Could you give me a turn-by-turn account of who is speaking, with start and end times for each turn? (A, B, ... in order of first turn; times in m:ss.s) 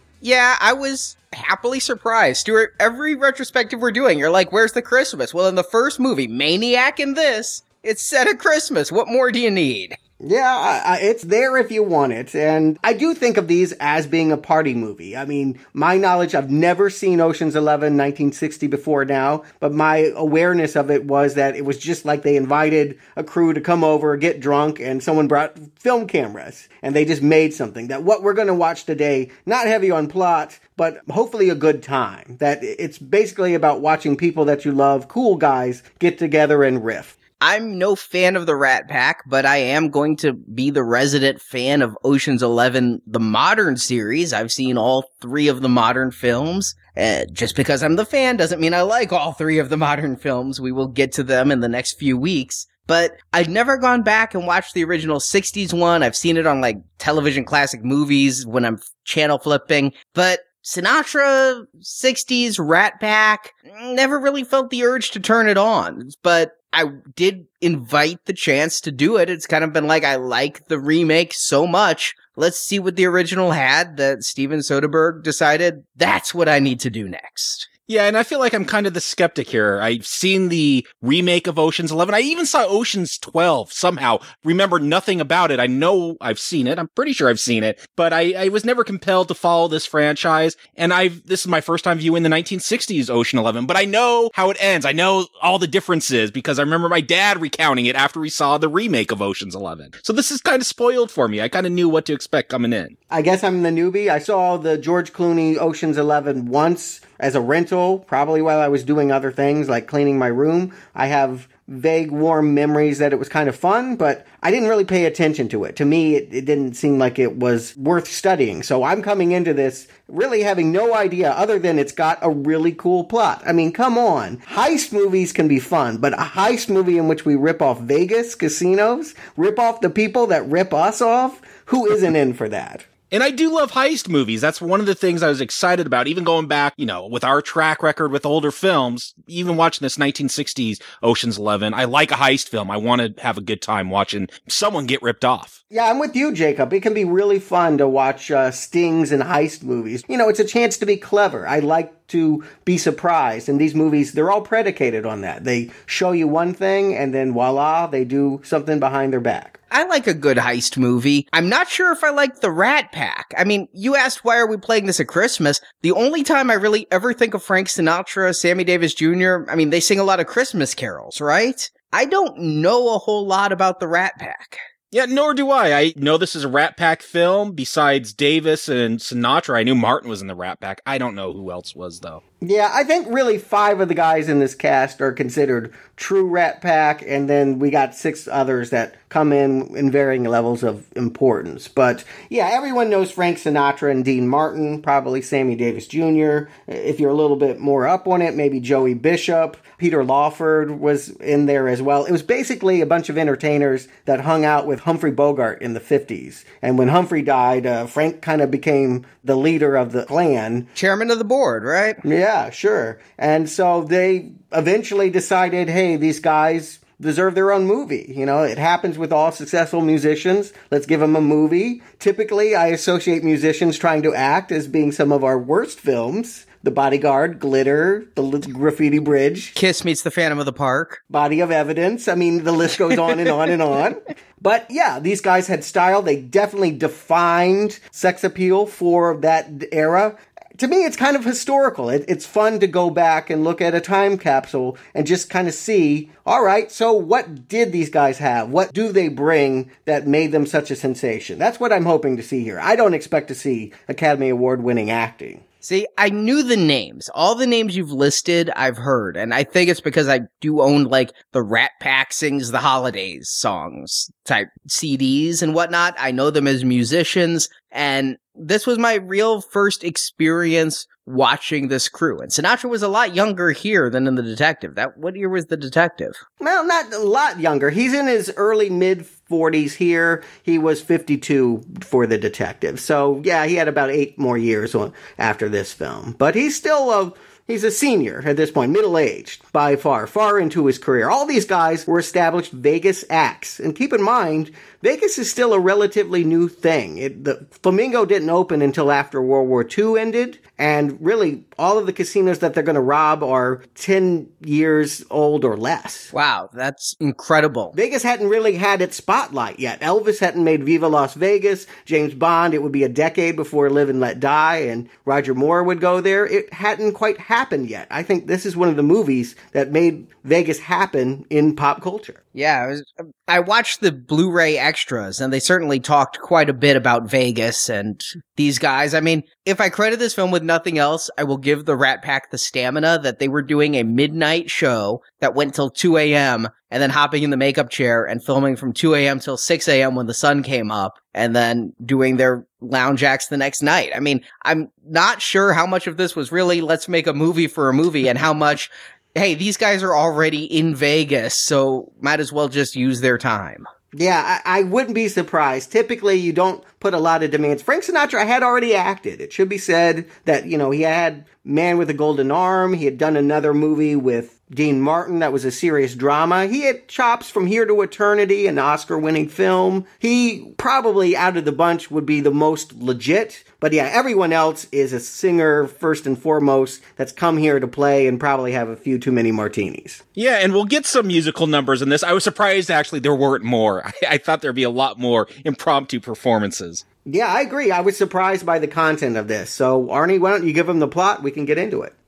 0:00.2-0:10.0 A
0:10.2-0:37.2 B
0:37.4-1:17.7 A
1:17.9-1:42.9 C
1:43.1-2:12.8 B
2:13.1-2:25.6 C
2:25.7-2:39.6 B
2:39.7-2:54.6 A
2:54.9-3:02.2 C
3:02.4-3:30.7 B
3:30.8-3:32.0 A
3:32.0-3:49.5 B
3:49.5-3:51.0 A
3:51.1-4:15.4 B
4:15.6-4:36.2 A
4:36.4-5:06.1 B
5:06.1-5:07.7 A
5:07.7-5:22.2 B
5:22.3-5:53.7 A
5:53.9-6:20.0 B
6:20.2-6:26.8 C
6:27.0-6:31.9 B